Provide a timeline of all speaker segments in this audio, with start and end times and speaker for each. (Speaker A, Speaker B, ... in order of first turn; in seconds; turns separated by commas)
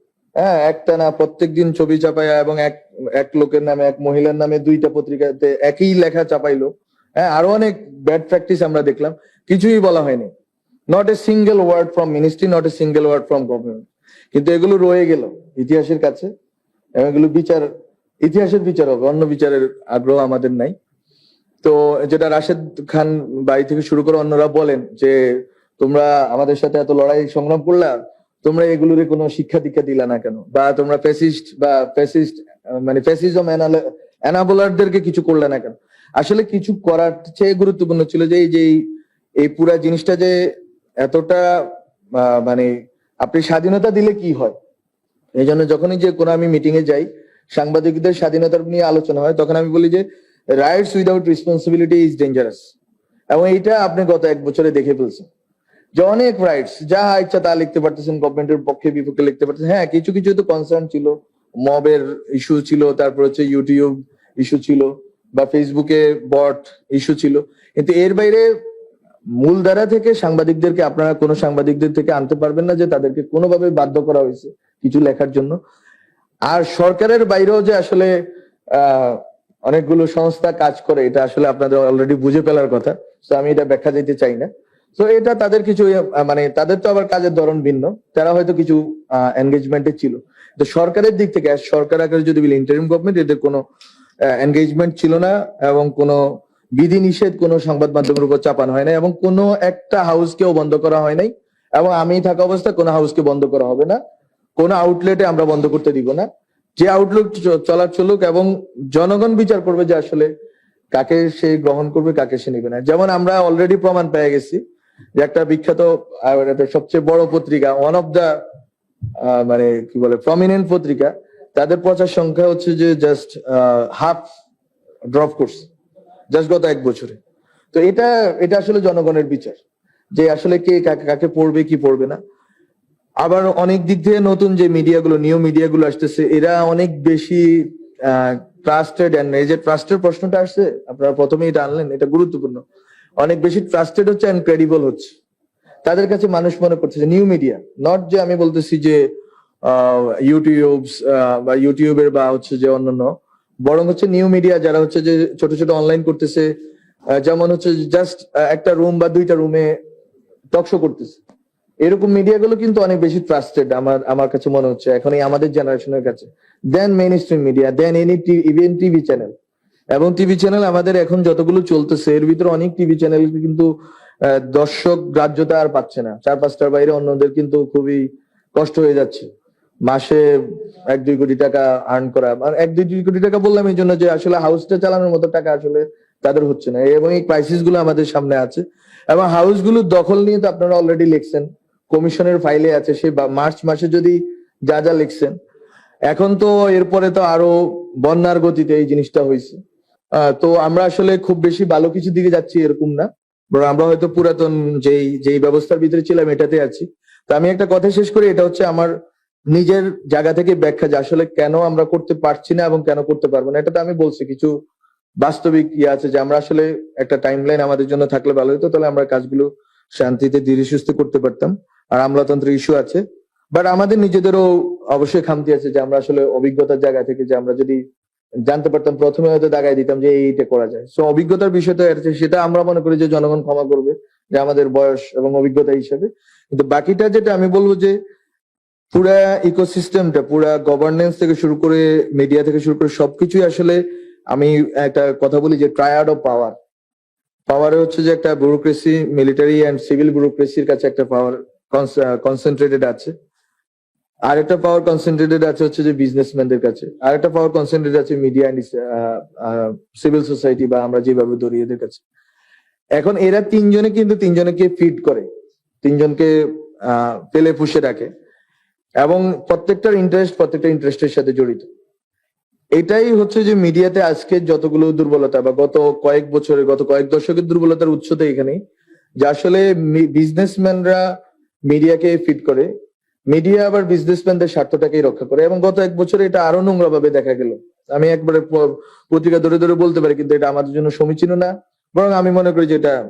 Speaker A: 0.4-10.3, Speaker A: 10.9-16.3, Speaker A: 17.0-17.7, Speaker A: 18.2-20.8, Speaker A: 21.6-38.9, Speaker A: 39.4-44.5, Speaker A: 45.4-52.7, Speaker A: 53.3-55.3, Speaker A: 56.0-68.5, Speaker A: 69.4-75.6, Speaker A: 76.5-78.1, Speaker A: 78.7-93.6, Speaker A: 94.3-96.2, Speaker A: 96.8-104.0, Speaker A: 104.6-106.3, Speaker A: 106.8-110.3, Speaker A: 110.9-114.6, Speaker A: 115.2-118.4, Speaker A: 119.2-124.3, Speaker A: 125.1-125.7, Speaker A: 126.3-127.2, Speaker A: 127.7-129.6, Speaker A: 130.1-132.2, Speaker A: 133.2-142.6, Speaker A: 143.2-145.2, Speaker A: 145.8-149.1, Speaker A: 149.6-156.5, Speaker A: 157.1-159.8, Speaker A: 160.5-161.2, Speaker A: 161.8-169.3, Speaker A: 169.9-173.7, Speaker A: 174.2-179.3, Speaker A: 179.8-195.3, Speaker A: 196.1-199.6, Speaker A: 200.1-208.9, Speaker A: 209.5-214.5, Speaker A: 215.2-227.8, Speaker A: 228.5-238.0, Speaker A: 238.9-246.6, Speaker A: 247.5-253.1, Speaker A: 254.3-262.0, Speaker A: 263.0-265.3, Speaker A: 265.8-268.1, Speaker A: 269.0-271.7, Speaker A: 272.8-278.6, Speaker A: 279.2-281.0, Speaker A: 281.7-282.7, Speaker A: 283.3-293.0